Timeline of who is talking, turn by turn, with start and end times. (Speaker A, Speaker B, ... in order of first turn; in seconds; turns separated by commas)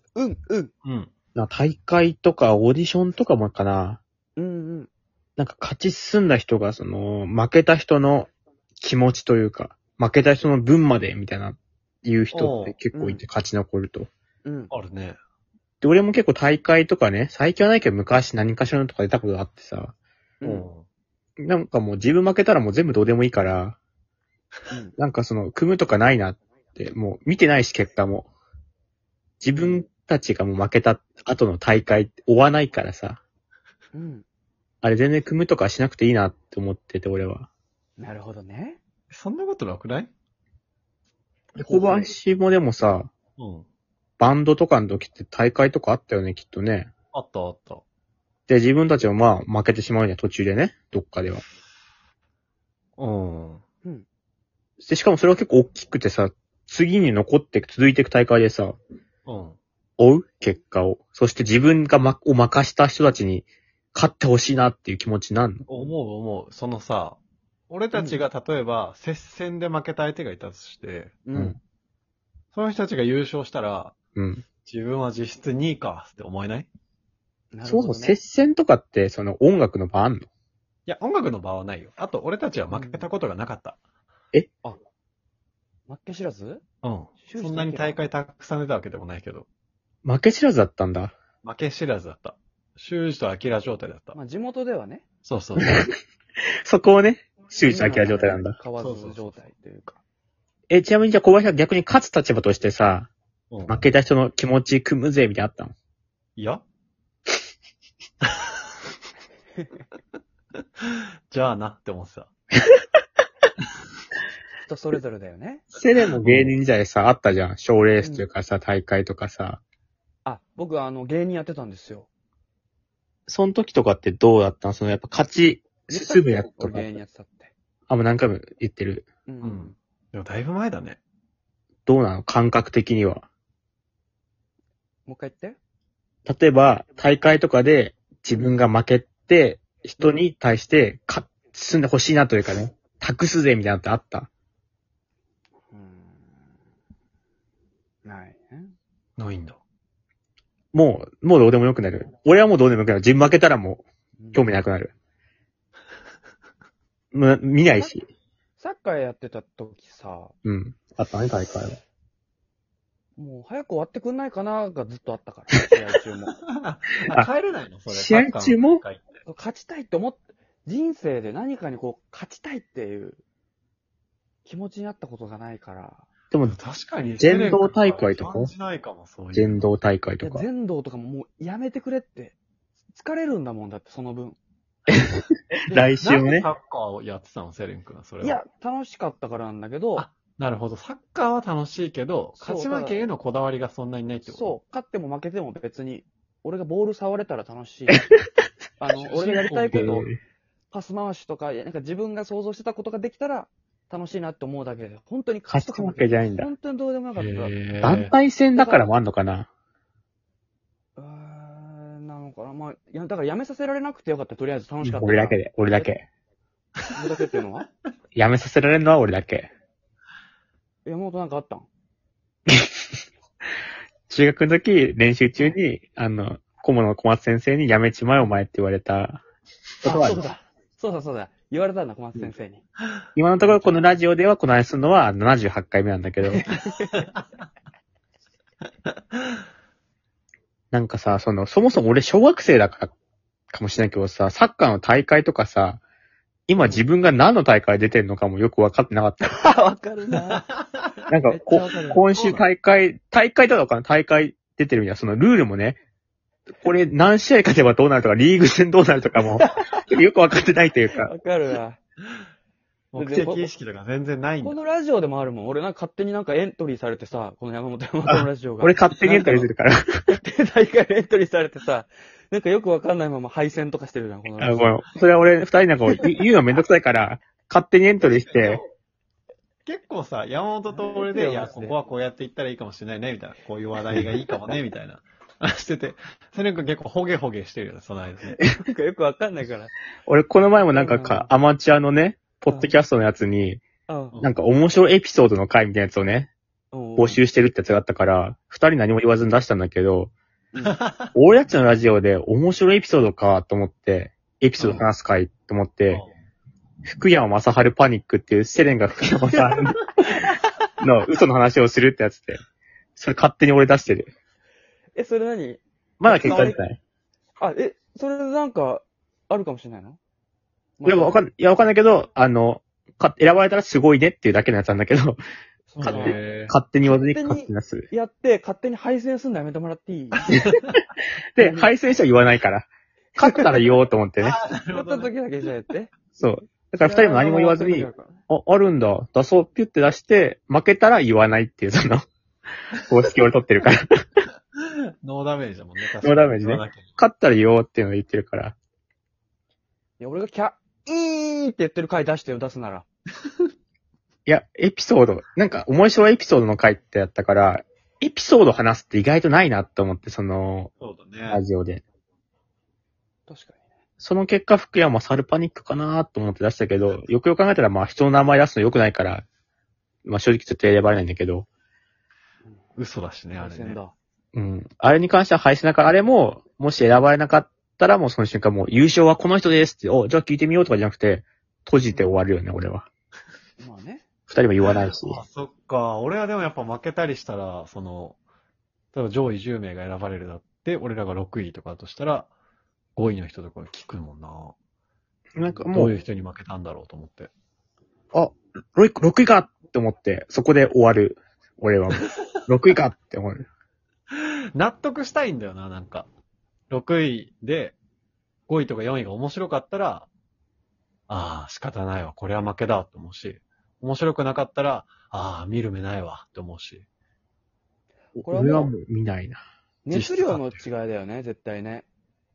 Speaker A: 0.1-0.7, Speaker B: 0.8-1.1, Speaker C: 1.3-4.0, Speaker A: 4.3-4.9, Speaker C: 5.4-14.1, Speaker B: 12.3-12.8, Speaker A: 12.9-13.2, Speaker A: 14.4-14.7, Speaker B: 14.7-15.2, Speaker C: 15.8-19.9, Speaker A: 20.4-20.7, Speaker B: 20.4-20.9, Speaker C: 21.4-23.8, Speaker C: 25.0-28.3, Speaker C: 29.4-33.2, Speaker A: 33.9-34.2, Speaker C: 34.8-37.5, Speaker A: 38.0-38.8, Speaker B: 39.1-40.1, Speaker C: 41.5-43.1, Speaker B: 41.6-42.1, Speaker B: 43.4-43.6, Speaker C: 44.2-46.9, Speaker B: 47.1-47.8, Speaker C: 48.5-51.4, Speaker B: 53.0-53.6, Speaker C: 54.8-58.8, Speaker B: 59.2-59.6, Speaker C: 60.0-65.7, Speaker B: 65.7-71.2, Speaker A: 67.9-68.2, Speaker A: 71.2-71.6, Speaker B: 72.5-73.9, Speaker C: 74.1-74.5, Speaker B: 74.6-76.7, Speaker A: 77.5-78.2, Speaker C: 77.6-80.3, Speaker B: 80.9-83.8, Speaker A: 82.7-83.1, Speaker A: 85.9-86.6, Speaker B: 86.8-89.5, Speaker A: 87.2-88.0, Speaker C: 90.0-91.2, Speaker B: 91.4-94.2, Speaker A: 94.1-95.0, Speaker B: 95.2-95.9, Speaker C: 96.7-98.6, Speaker A: 97.7-100.0, Speaker B: 98.8-99.4, Speaker C: 100.7-103.1, Speaker B: 103.5-103.8, Speaker C: 103.7-105.7, Speaker B: 106.4-106.6, Speaker B: 111.3-112.3, Speaker A: 114.6-115.7, Speaker C: 115.7-119.6, Speaker B: 116.2-116.5, Speaker A: 118.0-118.3, Speaker A: 120.2-122.1, Speaker C: 123.3-127.0, Speaker A: 125.9-127.5, Speaker C: 127.9-129.1, Speaker A: 129.2-129.7, Speaker B: 129.4-131.0, Speaker C: 131.8-133.2, Speaker A: 135.1-135.6, Speaker C: 136.2-144.3, Speaker A: 145.7-146.4, Speaker A: 148.0-148.7, Speaker B: 149.2-149.6, Speaker C: 150.7-154.9, Speaker A: 154.2-154.5, Speaker C: 157.1-158.1, Speaker A: 158.6-160.3, Speaker C: 160.4-161.8, Speaker A: 163.2-166.3, Speaker B: 166.6-169.1, Speaker C: 167.9-168.8, Speaker A: 169.2-173.2, Speaker A: 174.4-176.1, Speaker B: 176.4-179.6, Speaker C: 177.2-178.5, Speaker C: 179.3-180.4, Speaker A: 180.2-182.3, Speaker A: 182.9-184.4, Speaker C: 184.9-186.5, Speaker B: 185.7-188.4, Speaker A: 188.2-190.1, Speaker B: 190.0-194.5, Speaker A: 192.4-193.0, Speaker A: 194.2-198.1, Speaker A: 198.8-200.1, Speaker B: 199.0-200.0, Speaker C: 199.7-200.2, Speaker A: 200.7-207.5, Speaker C: 205.5-206.5, Speaker B: 207.2-208.1, Speaker C: 207.8-209.5, Speaker A: 208.5-208.9, Speaker A: 210.9-215.9, Speaker C: 214.8-216.0, Speaker A: 216.9-217.7, Speaker C: 218.1-219.5, Speaker A: 220.8-221.7, Speaker C: 222.5-222.8, Speaker C: 224.1-229.2, Speaker C: 229.8-230.2, Speaker A: 229.8-232.6, Speaker C: 233.2-236.4, Speaker A: 233.4-234.0, Speaker A: 236.3-237.1, Speaker C: 240.7-242.9, Speaker C: 243.5-245.8, Speaker C: 246.5-249.4, Speaker A: 249.4-250.4, Speaker B: 250.5-250.8, Speaker C: 251.1-255.8, Speaker A: 251.2-252.1, Speaker B: 252.1-252.4, Speaker C: 256.6-261.1, Speaker A: 260.9-261.8, Speaker B: 262.9-264.6, Speaker A: 262.9-263.5, Speaker A: 264.4-269.5, Speaker C: 268.0-269.7, Speaker A: 270.1-274.8, Speaker C: 274.4-278.6, Speaker B: 278.0-278.6, Speaker B: 279.6-288.4, Speaker A: 280.7-281.8, Speaker A: 288.4-289.8, Speaker C: 290.1-293.6, Speaker A: 290.7-291.3, Speaker A: 292.5-292.7, Speaker A: 293.9-294.2, Speaker B: 294.1-294.4, Speaker C: 294.2-296.3, Speaker A: 296.7-297.2, Speaker C: 296.9-300.1, Speaker B: 300.6-301.1, Speaker C: 301.1-306.0, Speaker B: 304.6-304.9, Speaker B: 305.9-306.1, Speaker C: 306.9-310.2, Speaker C: 310.8-312.4, Speaker C: 312.9-314.1, Speaker A: 314.9-316.6, Speaker C: 316.0-316.8, Speaker A: 317.4-320.0, Speaker A: 320.8-321.2, Speaker C: 320.8-325.2, Speaker A: 325.7-326.2, Speaker B: 325.8-326.5, Speaker C: 325.8-327.9, Speaker A: 326.9-330.4, Speaker C: 331.4-334.4, Speaker A: 331.4-331.7, Speaker A: 333.2-333.7, Speaker B: 334.2-335.1, Speaker A: 334.7-335.9, Speaker C: 336.2-342.1, Speaker A: 336.8-338.2, Speaker C: 342.7-343.8, Speaker B: 344.6-346.9, Speaker C: 346.0-348.6, Speaker A: 350.0-352.9, Speaker C: 354.2-360.7, Speaker B: 360.8-361.4, Speaker C: 361.3-361.8, Speaker A: 363.3-363.6, Speaker C: 364.0-369.2, Speaker C: 370.0-371.5, Speaker B: 372.8-373.8, Speaker A: 373.4-373.9, Speaker C: 374.3-382.9, Speaker A: 383.6-384.1, Speaker C: 384.3-385.2, Speaker B: 384.6-388.2, Speaker B: 388.9-392.3, Speaker B: 392.9-394.5, Speaker C: 395.4-395.9, Speaker B: 395.4-397.3, Speaker C: 398.1-403.4, Speaker B: 404.1-406.1, Speaker B: 406.7-407.8, Speaker B: 408.5-410.1, Speaker B: 411.1-416.9, Speaker C: 418.2-419.4, Speaker A: 418.2-418.7, Speaker A: 419.8-421.9, Speaker B: 419.9-420.6